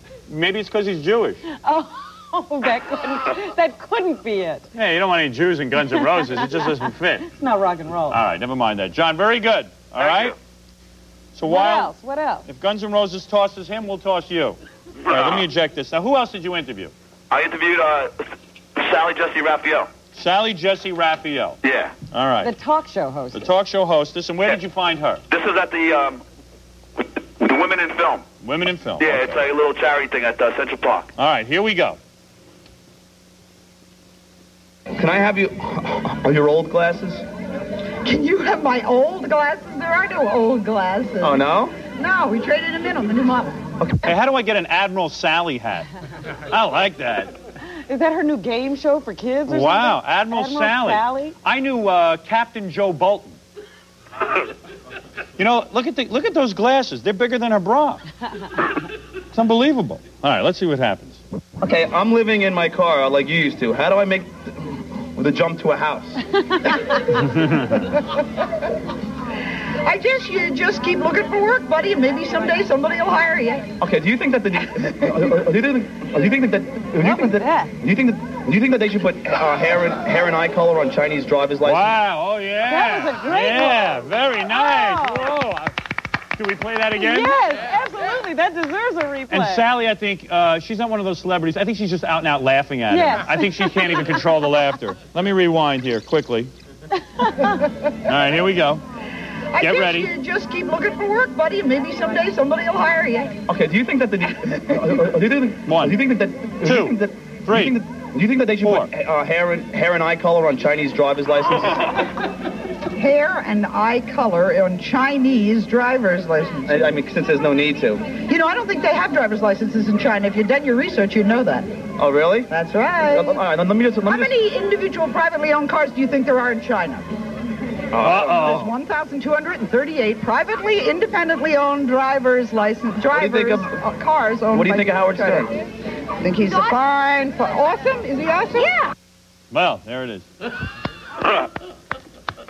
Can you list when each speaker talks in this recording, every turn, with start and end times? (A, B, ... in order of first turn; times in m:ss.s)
0:00.3-0:01.4 A
0:01.5-0:04.7 B
0:04.7-0:07.3 A
0:05.9-0:06.7 B
0:07.3-0:08.2 B
0:08.1-0:10.4 A
0:10.0-0:10.3 C
0:11.3-0:11.9 A
0:11.5-0:12.4 B
0:12.4-0:16.9 A
0:15.0-0:15.5 C
0:17.3-0:18.1 C
0:18.8-0:19.9 C
0:20.1-0:21.6 A
0:21.6-0:21.9 C
0:22.1-0:22.5 A
0:22.4-0:23.5 B
0:23.3-0:25.2 A
0:25.3-0:26.2 C
0:27.0-0:28.2 C
0:28.4-0:29.3 A
0:29.0-0:31.1 C
0:31.2-0:32.0 A
0:34.9-0:37.2 D
0:38.0-0:43.7 E
0:41.2-0:41.7 D
0:44.0-0:45.9 A
0:46.5-0:47.3 A
0:47.8-0:51.3 B
0:49.5-0:53.4 A
0:55.4-0:58.0 A
0:59.3-1:01.2 A
1:01.6-1:06.2 D
1:07.2-1:07.8 A
1:09.8-1:13.7 E
1:13.8-1:21.9 D
1:17.0-1:17.7 B
1:21.6-1:25.7 A
1:22.7-1:25.3 B
1:26.4-1:27.5 A
1:27.0-1:29.6 B
1:29.3-1:36.5 A
1:32.9-1:34.2 B
1:37.2-1:37.6 B
1:38.0-1:38.8 A
1:39.5-1:43.4 E
1:39.6-1:40.1 A
1:43.5-1:52.0 D
1:45.6-1:46.0 A
1:46.6-1:47.8 A
1:48.6-1:48.9 A
1:53.0-1:56.9 E
1:56.7-1:58.2 D
1:58.2-2:01.8 E
2:02.0-2:02.5 D
2:02.5-2:03.4 E
2:03.0-2:04.3 D
2:04.0-2:07.1 E
2:07.9-2:08.7 D
2:08.0-2:08.7 A
2:08.2-2:15.5 E
2:13.1-2:13.8 D
2:14.5-2:15.5 D
2:16.2-2:18.8 E
2:19.5-2:20.2 A